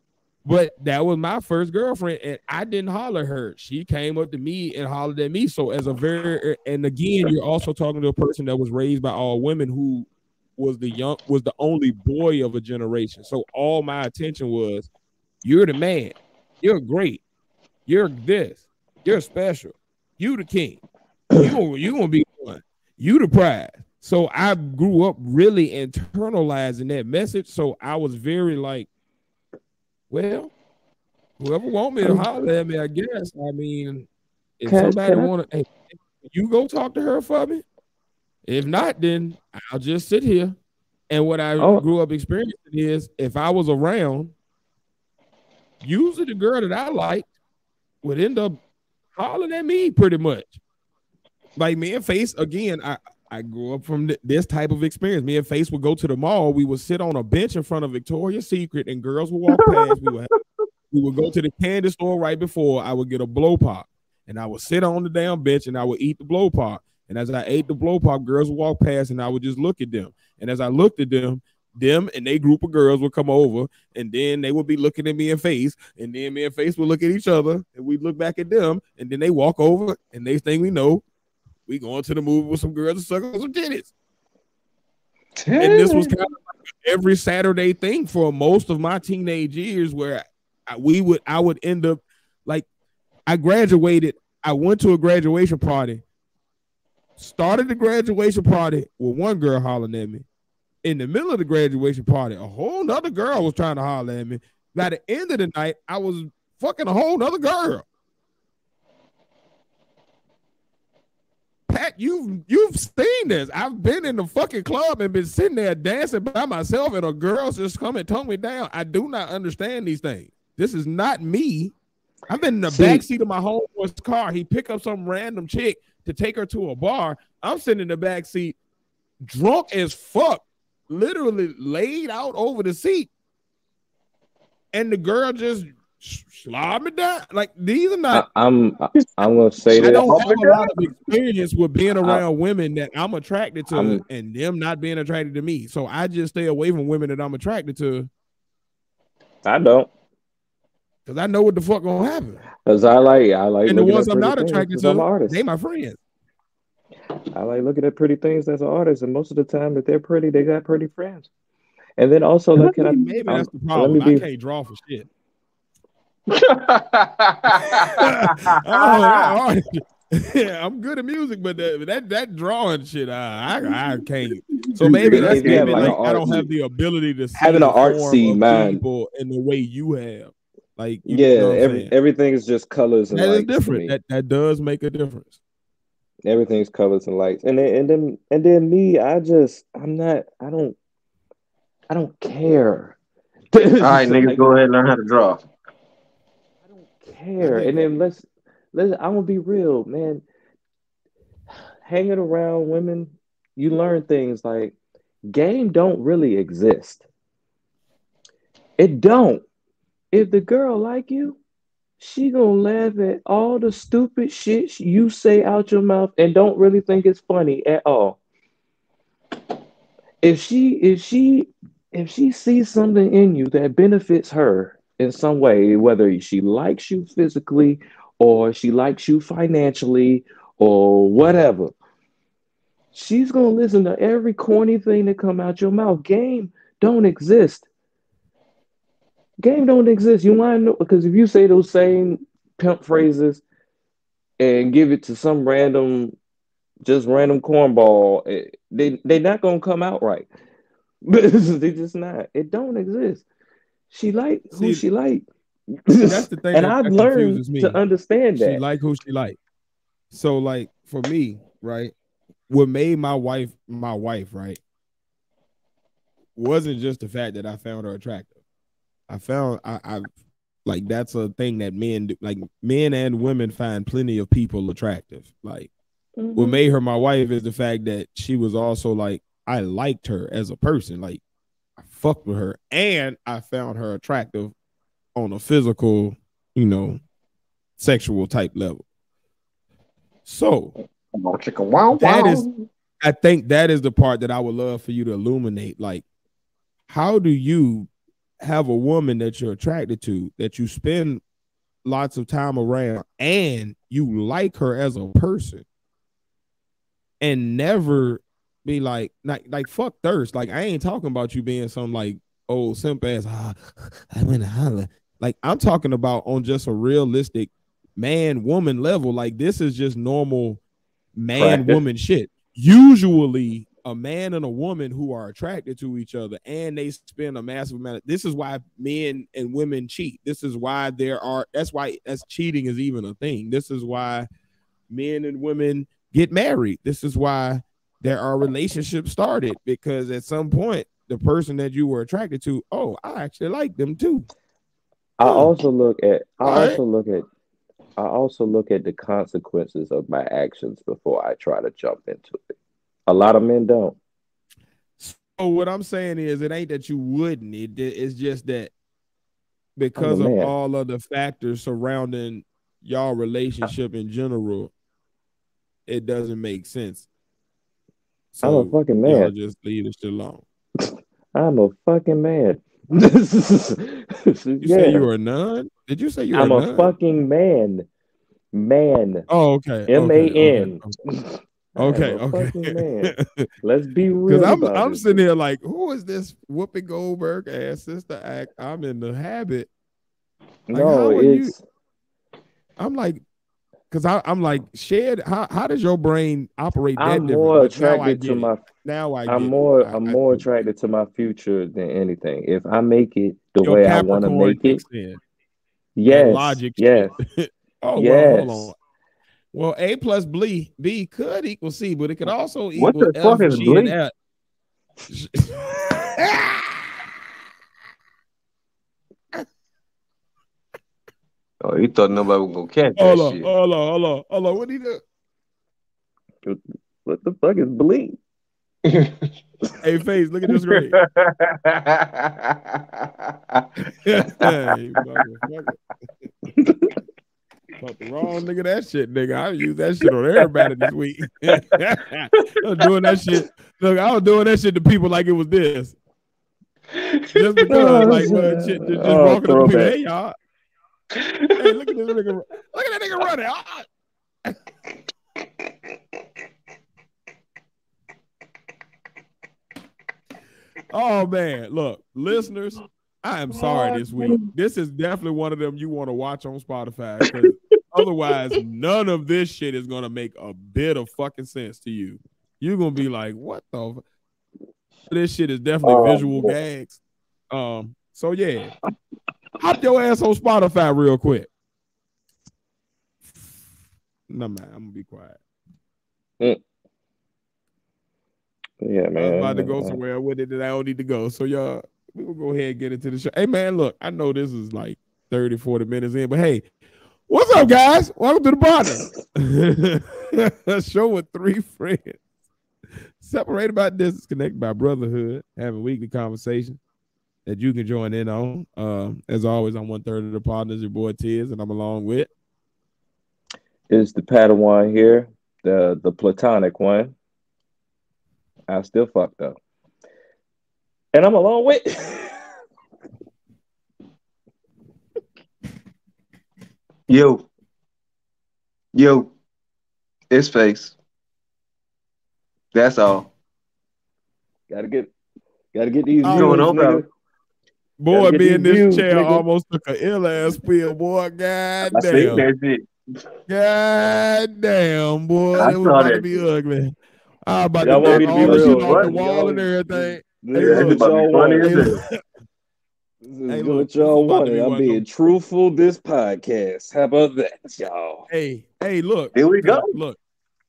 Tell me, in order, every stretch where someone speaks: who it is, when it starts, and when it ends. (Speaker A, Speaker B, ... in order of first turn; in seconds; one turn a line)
Speaker A: 0.5-14.9
Speaker A: 15.4-17.2
Speaker A: 17.9-20.8
Speaker A: 21.4-28.9
Speaker A: 30.1-30.5
Speaker A: 31.4-34.1
Speaker B: 32.0-32.3
Speaker A: 34.6-37.6
Speaker B: 34.7-35.3
Speaker A: 38.5-40.6
Speaker A: 41.1-44.3
Speaker B: 41.6-41.8
Speaker A: 45.8-47.3
Speaker A: 48.0-48.6
Speaker A: 49.2-50.6
Speaker A: 51.6-60.3
Speaker A: 60.9-81.0
Speaker A: 81.7-83.9
Speaker C: 85.4-86.1
Speaker A: 85.6-92.7
Speaker A: 93.3-96.0
Speaker A: 97.2-100.3
Speaker A: 100.8-107.9
Speaker A: 111.7-121.7
Speaker A: 122.3-128.6
Speaker B: 122.7-123.0
Speaker A: 129.2-133.1
Speaker A: 134.7-138.2
Speaker B: 138.1-140.1
Speaker C: 139.7-140.7
Speaker A: 139.8-148.1
Speaker B: 142.0-142.2
Speaker B: 143.7-144.0
Speaker B: 149.4-149.9
Speaker A: 151.1-152.4
Speaker B: 152.6-155.4
Speaker A: 153.7-156.0
Speaker B: 157.3-161.3
Speaker B: 162.0-164.2
Speaker A: 162.8-165.1
Speaker C: 166.3-169.4
Speaker A: 167.6-181.9
Speaker C: 174.5-176.0
Speaker B: 175.0-176.5
Speaker B: 177.4-178.8
Speaker B: 181.1-183.9
Speaker A: 183.1-185.3
Speaker B: 186.2-190.8
Speaker B: 191.9-193.0
Speaker B: 193.5-194.6
Speaker C: 193.8-195.4
Speaker B: 196.7-200.2
Speaker A: 197.4-197.8
Speaker B: 201.8-204.8
Speaker B: 205.3-207.0
Speaker B: 208.8-209.4
Speaker B: 210.1-211.4
Speaker B: 212.0-218.2
Speaker B: 220.2-231.7
Speaker B: 232.9-237.7
Speaker B: 239.4-243.4
Speaker B: 244.4-246.2
Speaker B: 246.8-250.3
Speaker B: 251.0-253.3
Speaker B: 253.9-258.6
Speaker A: 254.5-254.8
Speaker A: 256.0-257.8
Speaker A: 258.4-259.4
Speaker A: 260.1-261.9
Speaker A: 262.5-264.6
Speaker A: 266.4-268.3
Speaker A: 269.1-270.1
Speaker A: 270.6-275.7
Speaker B: 276.2-276.6
Speaker A: 276.4-281.2
Speaker A: 281.8-284.5
Speaker A: 285.2-287.0
Speaker A: 287.8-288.9
Speaker A: 290.2-290.7
Speaker C: 291.1-292.7
Speaker A: 292.0-292.5
Speaker A: 293.0-296.1
Speaker A: 296.9-297.9
Speaker A: 298.4-301.2
Speaker A: 301.8-305.6
Speaker A: 307.2-320.6
Speaker A: 321.2-334.3
Speaker B: 321.4-321.8
Speaker A: 334.9-344.3
Speaker B: 345.2-347.2
Speaker A: 345.2-345.5
Speaker A: 346.4-346.8
Speaker B: 348.0-352.5
Speaker B: 353.1-354.0
Speaker A: 355.0-358.7
Speaker A: 359.8-364.7
Speaker B: 360.0-360.5
Speaker A: 365.9-367.1
Speaker A: 368.4-370.4
Speaker B: 368.4-369.3
Speaker B: 371.3-375.1
Speaker A: 374.6-376.9
Speaker B: 376.3-377.9
Speaker B: 378.5-379.3
Speaker A: 379.3-380.9
Speaker B: 379.9-385.2
Speaker A: 381.8-383.5
Speaker A: 384.3-389.7
Speaker B: 390.7-391.6
Speaker A: 390.7-391.5
Speaker A: 392.8-393.2
Speaker A: 393.9-400.5
Speaker B: 397.0-398.6
Speaker B: 399.3-404.8
Speaker A: 403.6-405.2
Speaker B: 405.9-407.1
Speaker A: 406.1-408.8
Speaker B: 408.0-408.7
Speaker A: 409.5-414.1
Speaker C: 412.8-413.9
Speaker A: 415.1-416.8
Speaker C: 421.6-423.5
Speaker A: 423.0-425.0
Speaker B: 426.4-428.2
Speaker C: 428.9-429.3
Speaker A: 429.8-431.0
Speaker C: 430.7-433.7
Speaker A: 434.0-435.8
Speaker C: 434.3-434.5
Speaker A: 437.8-446.0
Speaker C: 446.9-448.3
Speaker A: 447.3-450.4
Speaker B: 447.7-449.9
Speaker C: 451.1-451.5
Speaker A: 451.6-453.9
Speaker A: 460.9-474.0
Speaker C: 463.6-464.4
Speaker A: 475.1-477.0
Speaker C: 475.8-476.5
Speaker A: 477.5-478.7
Speaker A: 479.6-481.5
Speaker A: 484.3-485.4
Speaker B: 488.8-490.0
Speaker A: 489.2-496.6
Speaker A: 497.3-502.2
Speaker A: 503.2-506.8
Speaker A: 507.5-512.3
Speaker B: 513.9-517.1
Speaker B: 518.7-519.6
Speaker B: 521.1-522.4
Speaker C: 527.1-527.5
Speaker C: 528.9-529.3
Speaker C: 530.3-531.0
Speaker C: 532.7-533.3
Speaker B: 534.7-535.1
Speaker B: 535.7-537.0
Speaker A: 536.2-536.7
Speaker C: 536.3-537.0
Speaker A: 538.0-542.5
Speaker B: 538.1-539.4
Speaker C: 541.9-542.9
Speaker A: 543.5-546.9
Speaker C: 545.6-546.3
Speaker A: 547.5-551.1
Speaker B: 547.8-551.9
Speaker C: 547.8-549.7
Speaker C: 550.5-552.0
Speaker A: 551.6-552.0
Speaker B: 553.2-558.3
Speaker A: 553.5-555.0
Speaker A: 558.3-560.2
Speaker C: 559.3-559.9